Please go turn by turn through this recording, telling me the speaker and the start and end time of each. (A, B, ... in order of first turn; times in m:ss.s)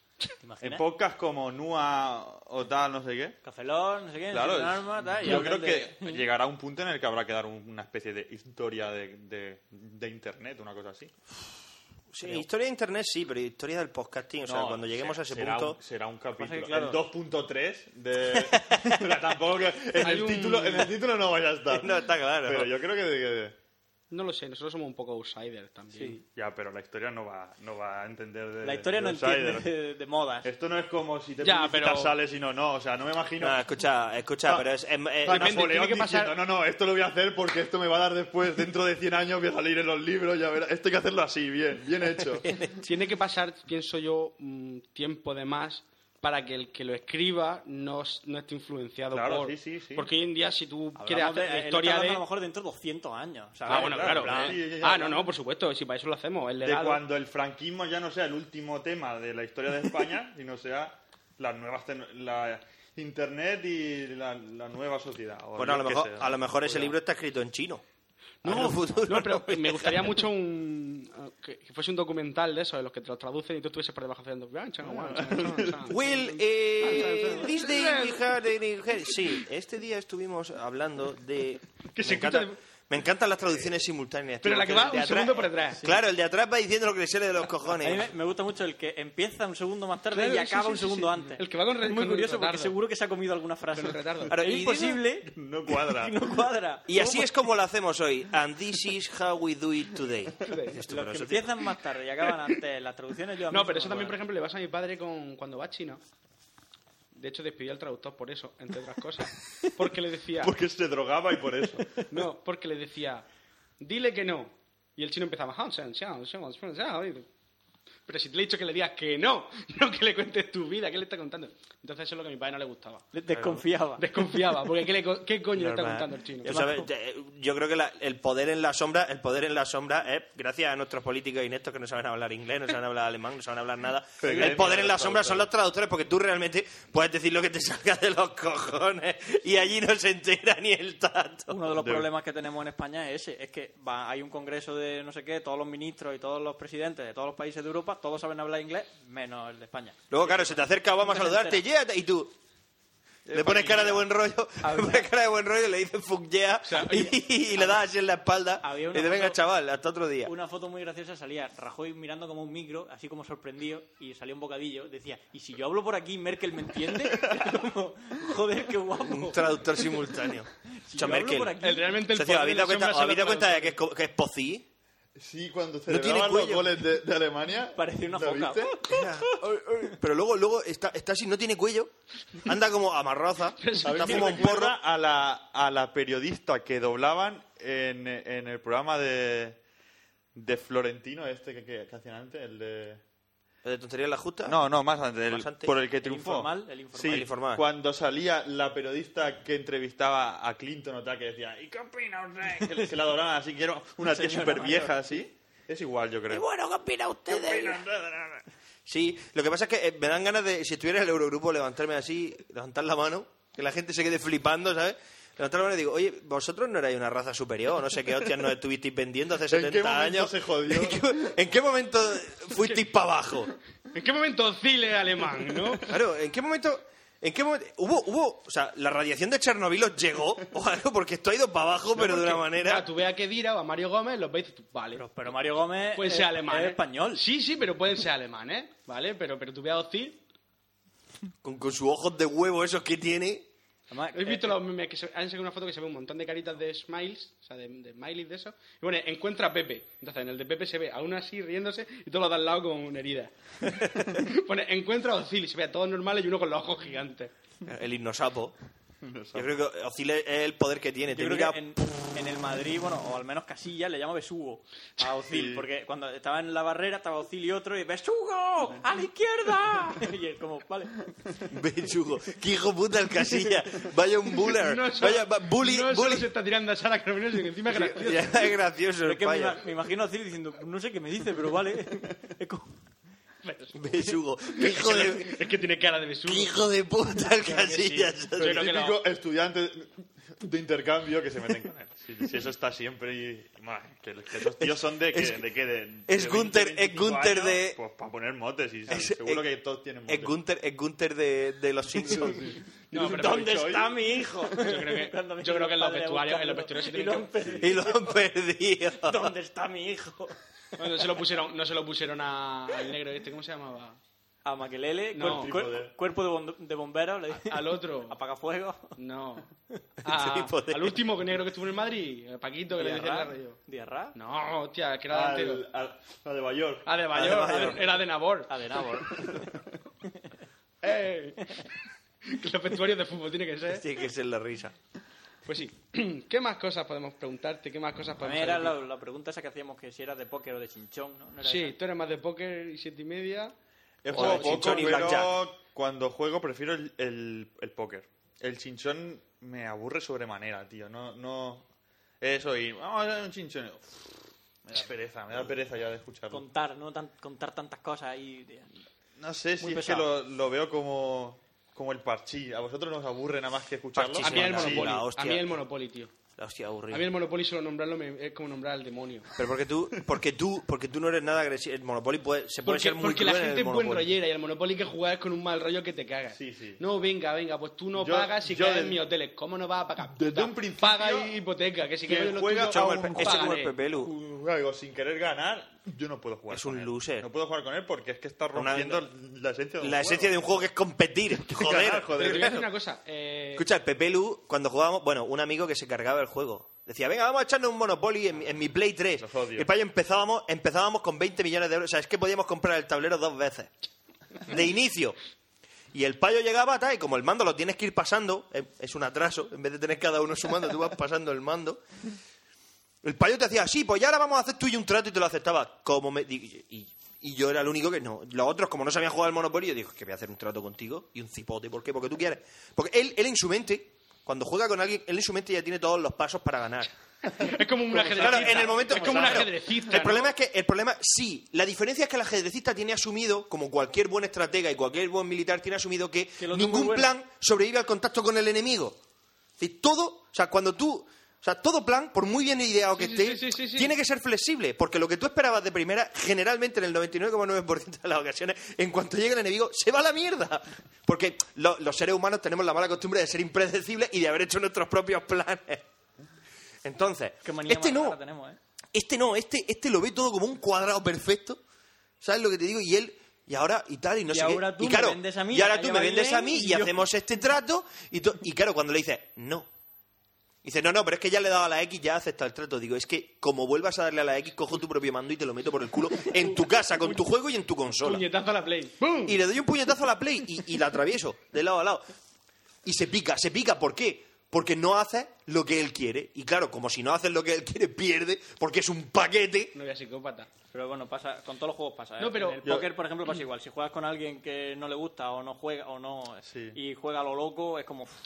0:00.4-0:00.8 A
0:00.6-0:03.4 B
0:03.4-0:06.2 A
0:04.3-0:11.1 B
0:12.1-0:15.8 C
0:14.5-0:23.6 B
0:16.4-0:17.0 A
0:18.4-0:19.0 C
0:20.0-0:20.9 D
0:21.7-0:22.7 C
0:24.1-0:26.2 D
0:26.3-0:29.7 B
0:28.6-0:30.5 A
0:30.4-0:33.6 B
0:31.4-0:32.2 D
0:33.4-0:35.6 C
0:35.2-0:42.5 B
0:35.3-0:36.3 D
0:42.4-0:42.8 C
0:42.8-0:52.2 D
0:49.1-0:50.1 B
0:51.0-0:54.6 A
0:53.7-0:55.3 B
0:53.7-0:57.0 D
0:56.6-1:07.0 B
1:05.6-1:07.8 C
1:08.4-1:18.5 D
1:08.4-1:10.2 C
1:14.9-1:15.9 B
1:15.9-1:28.1 C
1:21.9-1:22.6 D
1:24.4-1:25.8 D
1:27.8-1:37.3 A
1:30.1-1:32.7 D
1:33.7-1:34.3 D
1:34.3-1:35.0 C
1:35.3-1:36.1 B
1:36.9-1:41.5 C
1:40.4-1:40.8 D
1:40.9-1:44.2 A
1:43.5-1:46.0 D
1:47.1-1:50.6 D
1:50.4-1:51.9 B
1:52.1-1:53.2 D
1:53.8-1:57.3 D
1:58.1-2:03.1 D
2:03.1-2:04.6 A
2:03.3-2:03.6 B
2:04.0-2:06.5 D
2:05.6-2:21.7 C
2:06.4-2:06.9 A
2:14.2-2:15.5 B
2:14.3-2:14.6 A
2:21.5-2:31.6 A
2:21.7-2:22.1 B
2:30.1-2:32.3 C
2:33.3-2:34.1 A
2:33.3-2:40.3 C
2:34.6-2:35.0 A
2:36.6-2:37.2 D
2:37.6-2:37.8 A
2:38.6-2:39.4 A
2:40.2-2:50.1 A
2:47.1-2:47.4 B
2:49.0-2:51.5 C
2:50.6-2:52.1 A
2:51.6-2:53.8 D
2:52.1-2:54.6 C
2:55.2-2:58.9 B
2:55.9-2:56.7 C
2:57.8-2:59.1 A
2:58.9-3:04.8 C
3:03.6-3:04.5 D
3:03.8-3:09.6 B
3:10.4-3:13.0 B
3:13.6-3:14.6 C
3:14.4-3:26.4 B
3:15.3-3:15.7 C
3:16.0-3:17.3 A
3:17.0-3:17.6 C
3:24.0-3:25.0 A
3:26.3-3:27.8 C
3:27.3-3:28.5 B
3:28.9-3:43.5 C
3:39.5-3:41.3 B
3:42.6-3:42.8 D
3:43.9-3:45.9 D
3:45.8-3:52.9 C
3:52.0-3:55.0 D
3:55.0-3:57.2 A
3:55.9-4:00.2 D
4:01.4-4:03.5 C
4:03.9-4:04.6 A
4:04.1-4:17.3 D
4:17.6-4:18.6 C
4:19.0-4:19.5 B
4:19.4-4:21.6 C
4:21.1-4:31.1 A
4:25.0-4:25.7 B
4:31.5-4:36.3 C
4:34.5-4:38.5 D
4:37.7-4:39.6 C
4:39.0-4:42.7 A
4:43.4-4:46.6 D
4:43.8-4:45.4 C
4:46.3-4:48.6 C
4:47.4-4:49.0 D
4:48.4-5:00.4 B
4:54.6-4:55.4 C
4:56.1-4:57.8 C
4:58.9-4:59.4 C
5:00.1-5:02.6 C
5:02.0-5:04.0 B
5:02.9-5:03.9 D
5:02.9-5:08.2 A
5:04.5-5:07.6 D
5:07.6-5:09.3 C
5:09.0-5:10.4 A
5:10.8-5:14.0 D
5:14.4-5:19.0 A
5:15.1-5:15.5 D
5:15.2-5:15.9 B
5:17.3-5:18.2 D
5:19.0-5:19.5 D
5:20.0-5:23.6 D
5:20.1-5:21.0 C
5:22.8-5:24.2 A
5:24.1-5:25.6 D
5:25.1-5:26.9 B
5:26.9-5:28.5 D
5:27.1-5:27.8 C
5:28.5-5:29.6 A
5:29.2-5:29.6 B
5:30.8-5:31.6 D
5:32.2-5:33.8 D
5:33.7-5:34.8 C
5:35.5-5:38.8 D
5:38.2-5:41.8 A
5:41.4-5:43.6 D
5:44.0-5:51.7 B
5:44.1-5:45.0 D
5:44.1-5:45.3 C
5:52.2-5:56.4 B
5:56.3-5:58.7 A
5:59.2-6:04.9 B
5:59.6-6:00.1 A
6:04.0-6:05.6 C
6:04.2-6:06.1 D
6:06.4-6:07.1 C
6:06.9-6:09.3 D
6:09.4-6:14.1 C
6:12.6-6:23.8 D
6:16.3-6:16.8 B
6:18.0-6:19.0 B
6:20.1-6:21.4 B
6:22.1-6:30.4 B
6:22.6-6:24.1 C
6:26.5-6:27.3 C
6:28.6-6:29.0 C
6:29.8-6:32.6 C
6:31.5-6:32.7 B
6:32.2-6:33.7 D
6:33.6-6:43.7 C
6:39.2-6:39.7 B
6:44.4-6:45.2 C
6:45.9-6:51.8 C
6:53.0-7:06.9 C
7:07.3-7:10.3 D
7:08.0-7:08.5 B
7:08.1-7:19.0 C
7:08.5-7:09.4 A
7:16.4-7:17.1 A
7:19.6-7:35.8 C
7:23.0-7:23.9 D
7:36.8-7:38.2 C
7:37.4-7:38.6 A
7:38.9-7:41.6 C
7:42.2-7:49.7 C
7:44.3-7:47.1 A
7:50.6-7:58.2 C
7:58.0-7:59.4 D
7:59.3-8:02.1 C
8:02.8-8:09.8 C
8:09.7-8:10.5 D
8:10.7-8:18.1 A
8:12.2-8:12.8 D
8:16.5-8:16.8 B